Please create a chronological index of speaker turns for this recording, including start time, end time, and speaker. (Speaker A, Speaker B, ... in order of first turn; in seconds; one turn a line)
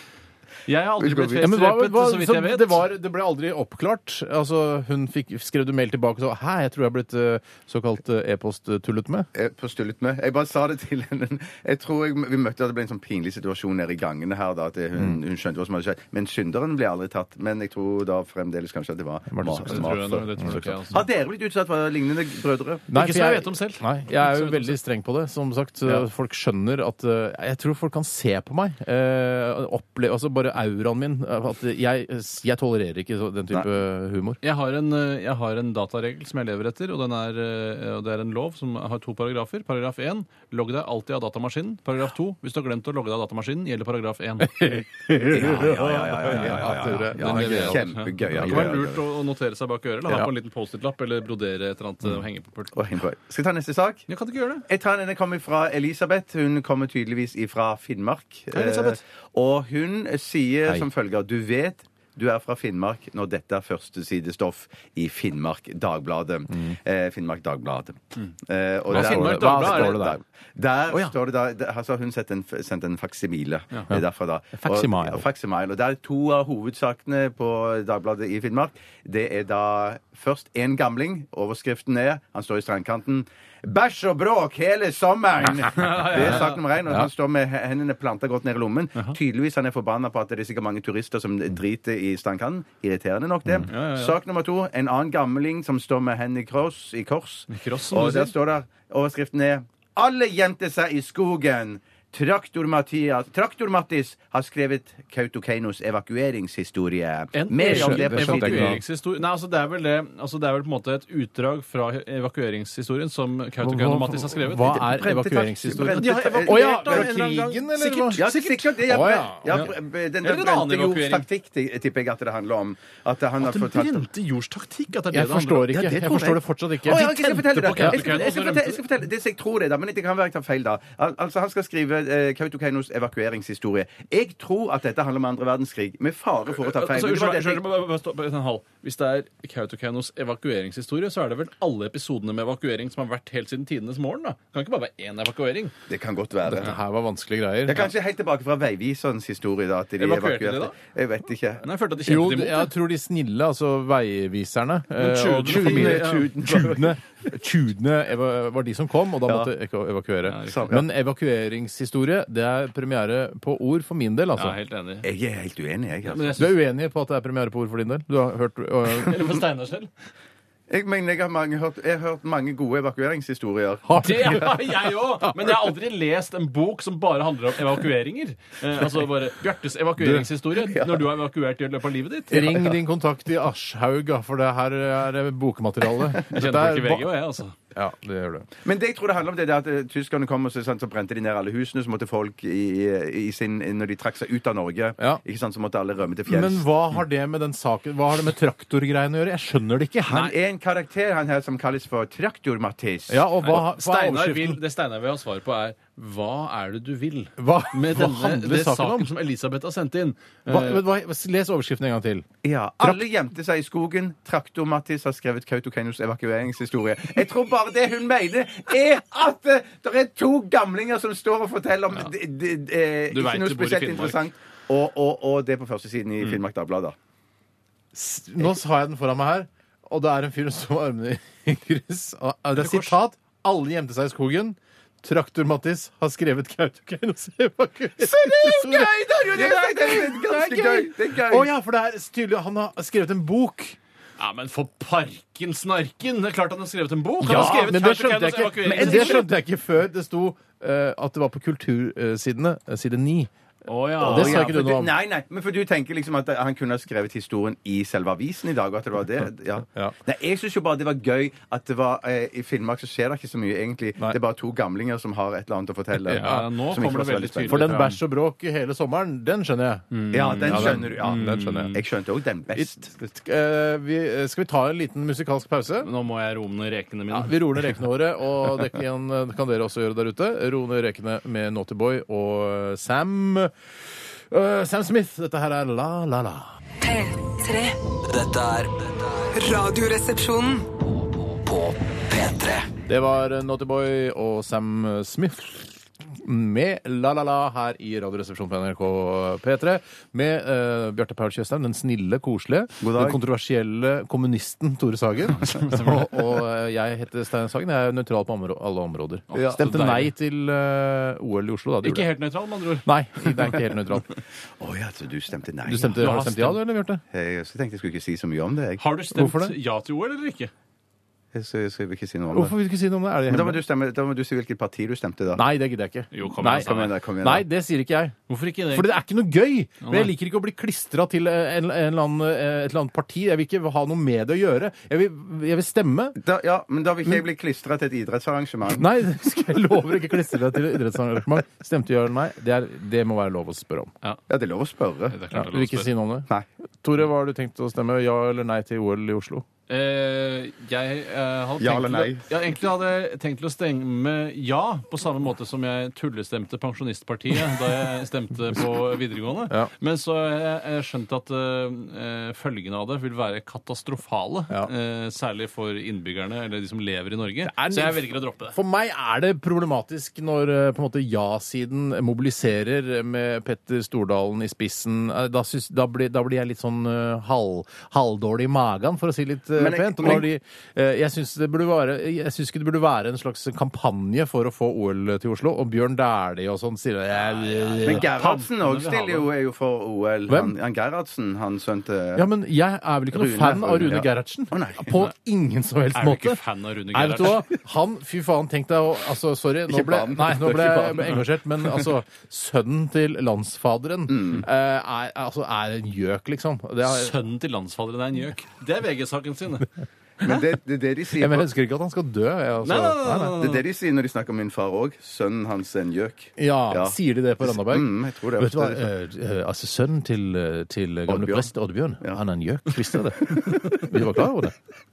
Speaker A: 0.7-2.8
Speaker B: 1.0-1.5
Speaker C: 1.4-9.3
Speaker B: 9.3-22.9
Speaker C: 19.3-20.6
Speaker A: 19.6-21.0
Speaker C: 22.9-34.4
Speaker A: 22.9-24.8
Speaker A: 34.4-45.8
Speaker C: 45.1-48.7
Speaker B: 45.2-49.0
Speaker A: 47.1-52.8
Speaker B: 52.7-54.0
Speaker A: 54.1-54.6
Speaker B: 54.7-108.8
Speaker A: 58.5-59.0
Speaker C: 68.9-70.2
Speaker A: 68.9-70.0
Speaker C: 74.5-75.2
Speaker A: 85.7-86.6
Speaker A: 93.7-94.2
Speaker A: 97.5-98.3
Speaker A: 107.3-114.9
Speaker C: 107.6-108.8
Speaker C: 113.6-119.7
Speaker B: 114.7-117.1
Speaker A: 115.8-118.4
Speaker B: 118.1-124.1
Speaker A: 119.5-121.2
Speaker A: 123.4-125.8
Speaker C: 125.1-128.0
Speaker B: 125.7-137.6
Speaker A: 127.0-128.8
Speaker A: 136.5-145.8
Speaker B: 145.9-146.8
Speaker C: 146.5-147.9
Speaker B: 147.7-151.7
Speaker A: 150.0-150.8
Speaker A: 151.6-152.7
Speaker C: 152.1-164.6
Speaker A: 154.9-156.3
Speaker B: 155.4-156.9
Speaker A: 160.2-160.7
Speaker B: 160.5-160.8
Speaker A: 164.3-165.1
Speaker B: 165.0-166.4
Speaker A: 166.1-166.6
Speaker C: 166.4-169.3
Speaker A: 168.9-169.9
Speaker B: 170.7-174.4
Speaker C: 173.8-174.6
Speaker A: 174.0-182.8
Speaker C: 180.0-180.3
Speaker B: 180.7-181.0
Speaker C: 182.3-187.1
Speaker A: 186.3-187.6
Speaker C: 187.7-188.5
Speaker B: 188.6-196.6
Speaker C: 196.3-200.2
Speaker B: 200.0-203.6
Speaker C: 203.1-204.6
Speaker A: 203.4-210.8
Speaker C: 207.4-209.1
Speaker C: 210.5-212.2
Speaker B: 212.4-226.9
Speaker A: 223.1-224.2
Speaker C: 227.9-243.8
Speaker A: 232.6-232.9
Speaker B: 238.0-241.5
Speaker A: 239.3-240.0
Speaker A: 244.2-249.3
Speaker C: 247.2-253.3
Speaker B: 247.3-247.6
Speaker B: 248.6-249.2
Speaker A: 253.7-254.6
Speaker C: 254.0-254.9
Speaker B: 254.0-267.7
Speaker C: 266.0-266.4
Speaker A: 266.1-268.0
Speaker C: 267.5-271.8
Speaker A: 269.9-271.8
Speaker B: 270.1-272.9
Speaker C: 272.5-275.9
Speaker A: 275.8-277.4
Speaker C: 277.1-283.5
Speaker C: 284.3-286.5
Speaker D: 286.8-287.8
Speaker E: 288.1-289.3
Speaker D: 289.4-290.7
Speaker E: 291.4-292.7
Speaker C: 292.9-312.1
Speaker B: 302.8-303.2
Speaker A: 305.3-306.3
Speaker A: 309.3-310.1
Speaker A: 311.8-313.5
Speaker C: 312.9-314.1
Speaker B: 314.6-316.2
Speaker C: 315.6-317.0
Speaker A: 315.9-316.6
Speaker B: 317.1-318.8
Speaker A: 318.8-320.5
Speaker C: 319.1-319.5
Speaker B: 321.3-322.5
Speaker C: 322.3-323.6
Speaker B: 323.3-325.4
Speaker C: 325.4-328.1
Speaker A: 326.1-326.9
Speaker B: 326.5-327.4
Speaker A: 328.3-328.9
Speaker C: 328.7-336.2
Speaker A: 329.8-330.1
Speaker B: 336.2-338.9
Speaker C: 338.8-343.9
Speaker B: 344.3-345.2
Speaker A: 345.1-345.9
Speaker C: 345.3-346.3
Speaker C: 346.8-349.4
Speaker A: 349.7-368.6
Speaker B: 351.6-352.3
Speaker C: 367.4-388.1
Speaker B: 379.6-380.3
Speaker A: 387.2-389.3
Speaker B: 387.8-392.3
Speaker C: 390.3-390.6
Speaker C: 392.1-407.1
Speaker B: 393.1-395.1
Speaker A: 395.9-397.4
Speaker B: 399.7-401.9
Speaker B: 404.1-404.4
Speaker A: 406.8-409.7
Speaker B: 410.2-411.5
Speaker C: 411.2-413.4
Speaker A: 412.6-413.6
Speaker B: 413.4-418.9
Speaker C: 416.4-424.5
Speaker B: 421.1-421.5